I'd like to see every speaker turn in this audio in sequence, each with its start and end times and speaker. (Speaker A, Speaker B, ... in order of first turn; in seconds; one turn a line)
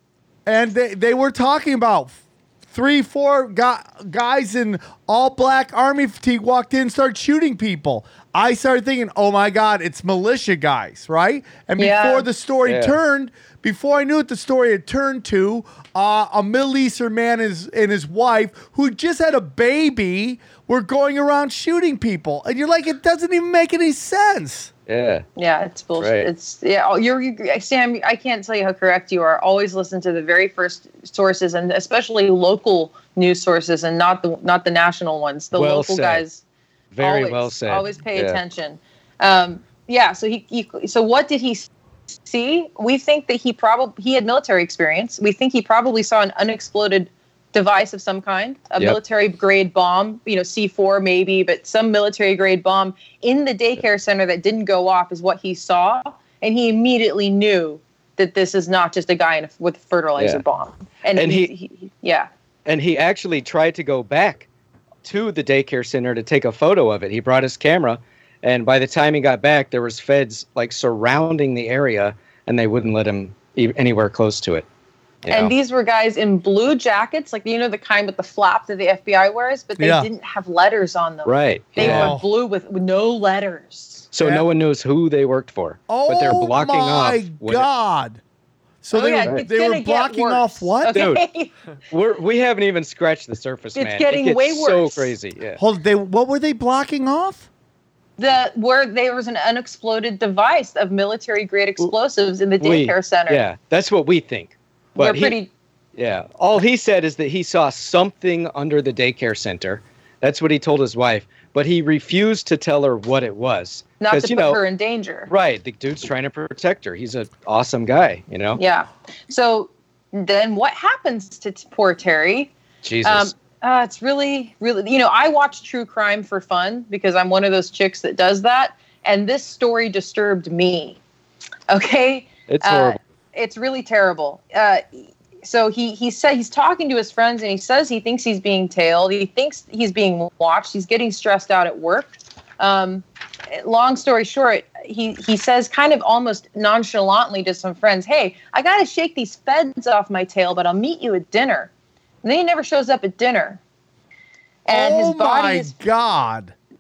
Speaker A: 0.5-24.7
Speaker B: 11.8-12.3
Speaker C: 12.7-12.9
Speaker C: 24.9-25.2
Speaker B: 25.4-36.4
Speaker C: 26.0-26.3
Speaker C: 35.5-36.2
Speaker C: 36.9-38.4
Speaker B: 37.0-41.7
Speaker B: 42.2-62.3
Speaker C: 60.2-60.4
Speaker C: 61.1-61.5
Speaker C: 62.7-64.5
Speaker C: 65.0-74.7
Speaker C: 75.2-75.5
Speaker B: 75.3-84.1
Speaker A: 79.8-80.1
Speaker C: 81.2-82.1
Speaker A: 81.8-82.3
Speaker C: 84.1-87.7
Speaker A: 84.2-84.5
Speaker A: 85.9-88.2
Speaker A: 88.8-91.1
Speaker B: 88.9-91.5
Speaker C: 90.9-91.2
Speaker C: 91.9-95.6
Speaker B: 93.8-95.1
Speaker A: 95.6-97.5
Speaker B: 98.2-103.4
Speaker C: 102.6-105.4
Speaker B: 105.0-105.5
Speaker C: 106.0-114.6
Speaker B: 114.0-115.3
Speaker C: 115.3-118.6
Speaker B: 118.6-122.5
Speaker C: 122.8-123.3
Speaker B: 123.0-131.0
Speaker B: 131.7-151.7
Speaker C: 132.5-133.0
Speaker B: 152.2-153.6
Speaker B: 154.7-155.7
Speaker A: 154.7-156.5